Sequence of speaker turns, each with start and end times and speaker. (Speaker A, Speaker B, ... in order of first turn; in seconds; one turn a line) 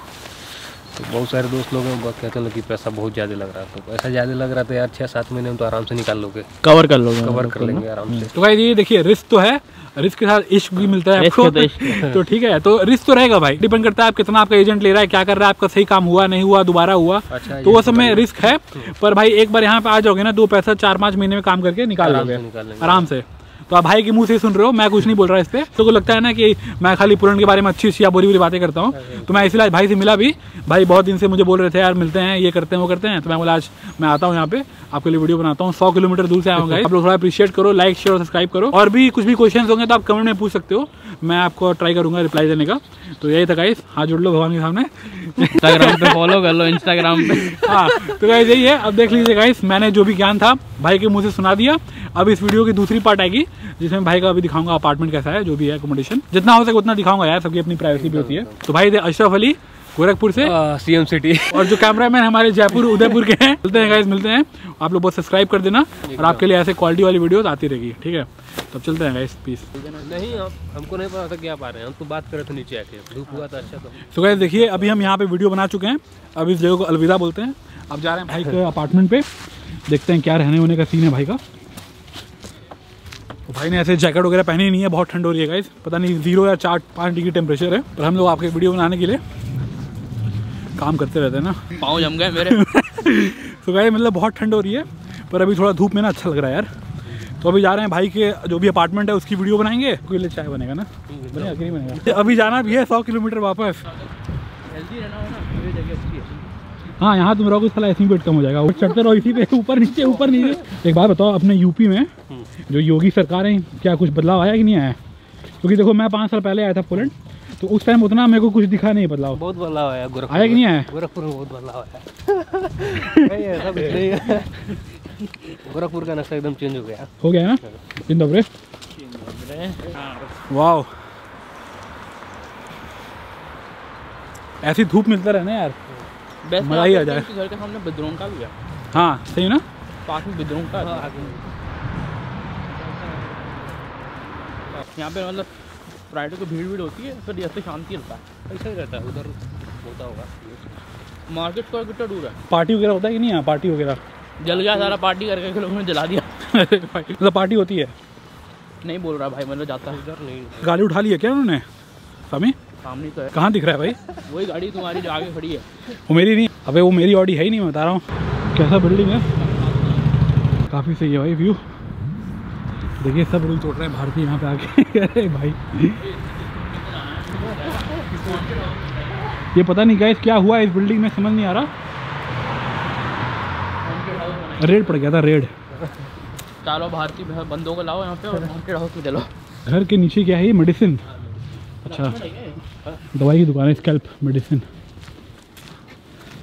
Speaker A: 0.9-6.5
Speaker B: 6.6-8.3
Speaker A: 7.2-8.3
Speaker C: 8.3-46.3
Speaker B: 11.1-12.1
Speaker A: 11.9-12.2
Speaker A: 17.3-18.9
Speaker A: 22.0-23.1
Speaker A: 28.9-29.6
Speaker B: 45.4-48.1
Speaker C: 47.2-60.5
Speaker A: 57.9-58.6
Speaker A: 60.4-62.0
Speaker C: 61.5-69.7
Speaker A: 66.0-66.4
Speaker B: 69.8-70.4
Speaker A: 69.9-75.1
Speaker C: 74.1-79.2
Speaker C: 79.9-81.4
Speaker C: 83.5-89.2
Speaker C: 90.8-96.7
Speaker B: 91.8-92.6
Speaker C: 97.4-103.8
Speaker A: 101.1-102.7
Speaker B: 104.7-106.4
Speaker C: 107.0-112.1
Speaker C: 112.7-115.0
Speaker C: 115.6-119.4
Speaker A: 119.3-124.6
Speaker C: 120.3-120.9
Speaker C: 123.0-123.3
Speaker A: 125.6-127.1
Speaker C: 127.2-128.5
Speaker B: 129.0-130.4
Speaker C: 130.5-130.9
Speaker C: 134.6-135.8
Speaker B: 136.4-138.5
Speaker C: 136.6-137.3
Speaker C: 138.9-139.6
Speaker B: 140.1-141.2
Speaker A: 140.8-141.5
Speaker A: 142.8-143.5
Speaker B: 144.8-145.5
Speaker B: 146.1-148.2
Speaker A: 148.5-150.8
Speaker B: 151.3-152.4
Speaker C: 152.5-154.0
Speaker B: 154.4-156.3
Speaker A: 154.5-154.9
Speaker C: 156.4-157.9
Speaker B: 158.8-160.0
Speaker A: 159.9-160.8
Speaker C: 160.6-161.6
Speaker C: 162.3-162.6
Speaker B: 162.8-163.3
Speaker C: 163.3-164.0
Speaker B: 164.2-165.7
Speaker C: 166.1-169.3
Speaker B: 169.3-170.0
Speaker C: 170.7-171.6
Speaker C: 173.0-176.1
Speaker B: 176.0-179.5
Speaker C: 179.5-181.7
Speaker B: 183.8-184.9
Speaker C: 184.6-185.5
Speaker B: 186.6-189.3
Speaker C: 189.7-191.0
Speaker C: 191.8-192.2
Speaker B: 191.8-192.6
Speaker C: 193.1-194.7